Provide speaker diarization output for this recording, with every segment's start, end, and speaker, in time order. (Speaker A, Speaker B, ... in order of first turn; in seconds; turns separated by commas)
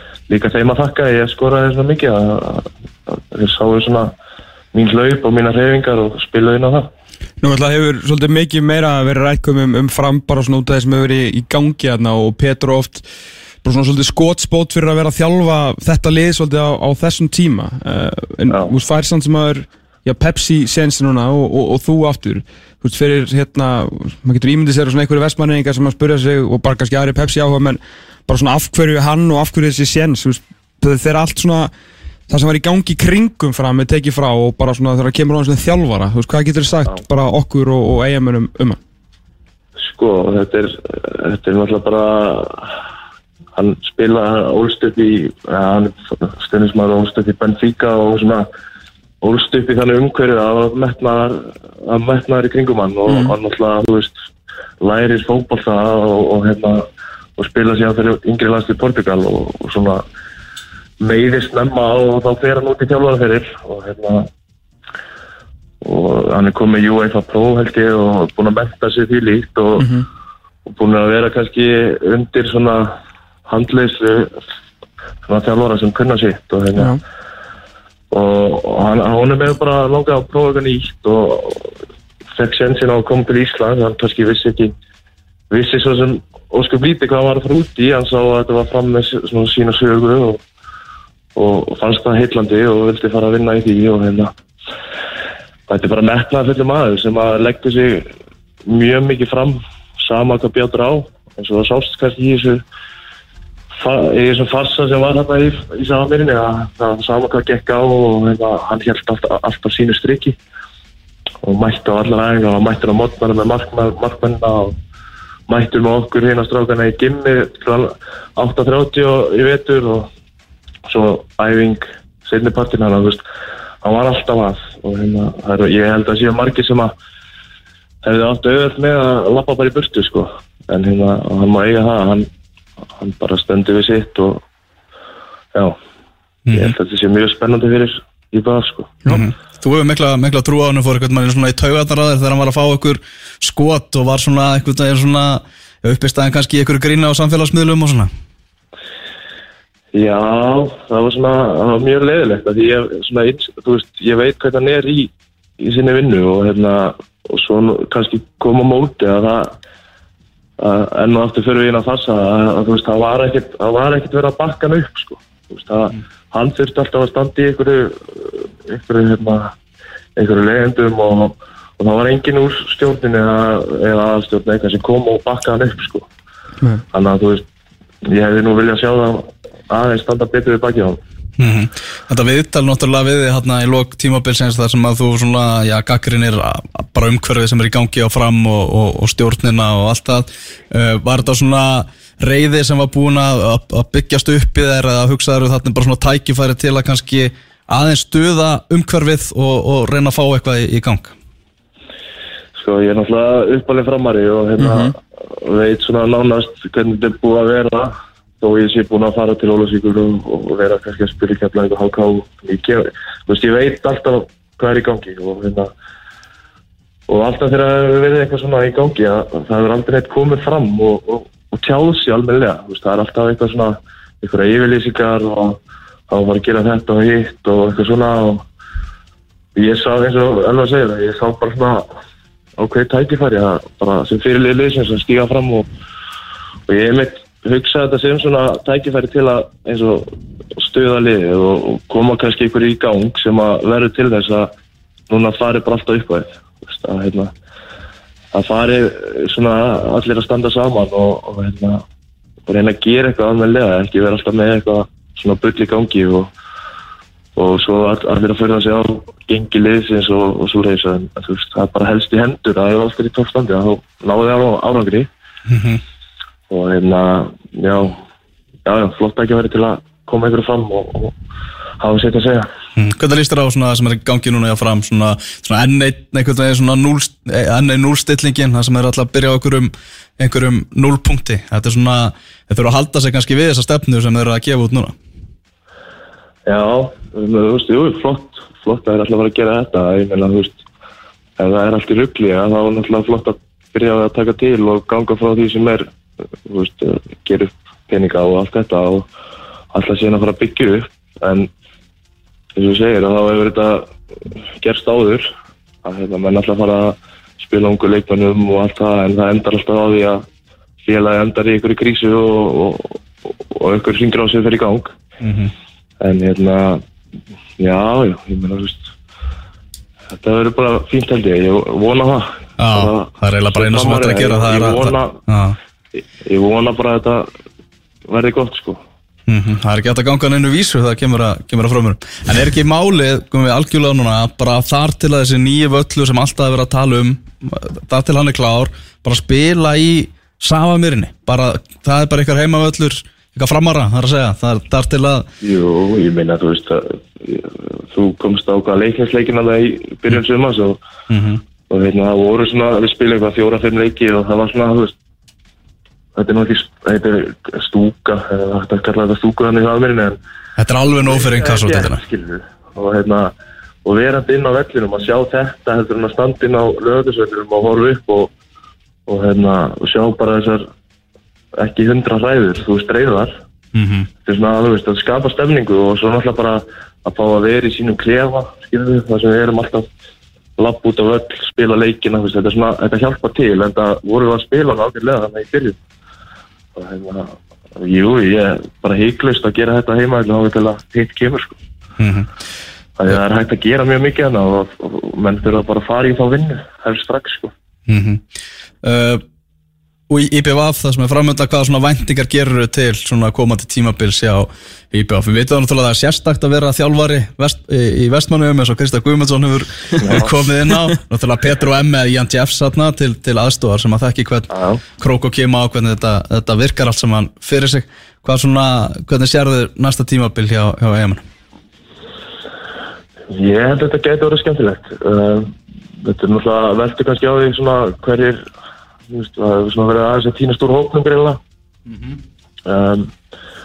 Speaker A: 0.3-4.1, Speaker A: 4.7-6.9, Speaker B: 7.4-13.1, Speaker B: 13.6-31.7, Speaker B: 32.3-38.8, Speaker A: 39.8-42.8, Speaker A: 43.5-48.5, Speaker A: 49.2-54.1, Speaker B: 53.1-53.4, Speaker A: 54.8-56.9, Speaker A: 57.4-60.0, Speaker A: 61.0-64.3, Speaker A: 65.8-69.9, Speaker B: 69.8-70.1, Speaker A: 70.7-73.0, Speaker A: 73.5-74.4, Speaker A: 75.2-77.0, Speaker A: 78.1-81.7, Speaker A: 82.3-84.7, Speaker A: 85.5-90.4, Speaker A: 91.3-94.3, Speaker A: 95.7-98.1, Speaker A: 98.7-102.6, Speaker A: 103.8-110.4, Speaker A: 111.4-114.8, Speaker A: 115.5-120.1, Speaker A: 120.9-123.2, Speaker A: 123.8-126.9, Speaker A: 128.0-132.3, Speaker A: 133.0-134.4, Speaker C: 136.5-136.7, Speaker A: 136.5-139.0, Speaker C: 139.1-148.1, Speaker A: 149.9-159.6, Speaker A: 160.6-169.5, Speaker A: 170.2-176.1, Speaker A: 176.9-177.4, Speaker A: 178.1-181.0, Speaker C: 181.4-201.2, Speaker A: 202.6-215.7, Speaker B: 204.6-204.9, Speaker A: 217.1-228.4, Speaker A: 229.6-231.9, Speaker A: 232.6-235.7, Speaker A: 236.7-244.5, Speaker A: 245.1-247.3, Speaker A: 248.3-251.8, Speaker A: 252.5-256.3, Speaker A: 257.4-265.1, Speaker C: 265.5-265.8, Speaker A: 266.5-268.0, Speaker A: 268.7-271.1, Speaker A: 271.8-272.5, Speaker C: 272.8-284.9, Speaker A: 286.5-290.6, Speaker A: 291.4-295.9, Speaker A: 296.4-299.1, Speaker A: 299.7-301.5, Speaker A: 302.6-303.9, Speaker A: 304.6-305.3, Speaker A: 305.8-310.2, Speaker A: 310.8-315.0, Speaker C: 315.2-315.5, Speaker A: 316.0-316.8, Speaker A: 317.6-318.9, Speaker A: 320.1-325.2, Speaker C: 322.6-325.6, Speaker A: 326.2-327.3, Speaker A: 328.1-328.8, Speaker C: 329.3-345.3, Speaker A: 345.4-350.8, Speaker C: 351.1-351.4, Speaker A: 351.7-354.9, Speaker A: 356.2-360.2, Speaker C: 360.6-362.0, Speaker A: 360.9-363.3, Speaker A: 363.9-368.3, Speaker A: 369.1-370.7, Speaker A: 371.6-373.4, Speaker C: 373.7-374.1, Speaker A: 374.2-379.9, Speaker A: 380.6-385.8, Speaker A: 386.8-391.6, Speaker C: 392.0-392.3, Speaker A: 393.0-397.5, Speaker C: 397.9-398.2, Speaker C: 398.8-399.2, Speaker C: 400.1-421.2, Speaker A: 410.0-410.3, Speaker A: 414.5-414.8, Speaker A: 423.3-428.4, Speaker A: 429.1-431.4, Speaker A: 432.7-433.1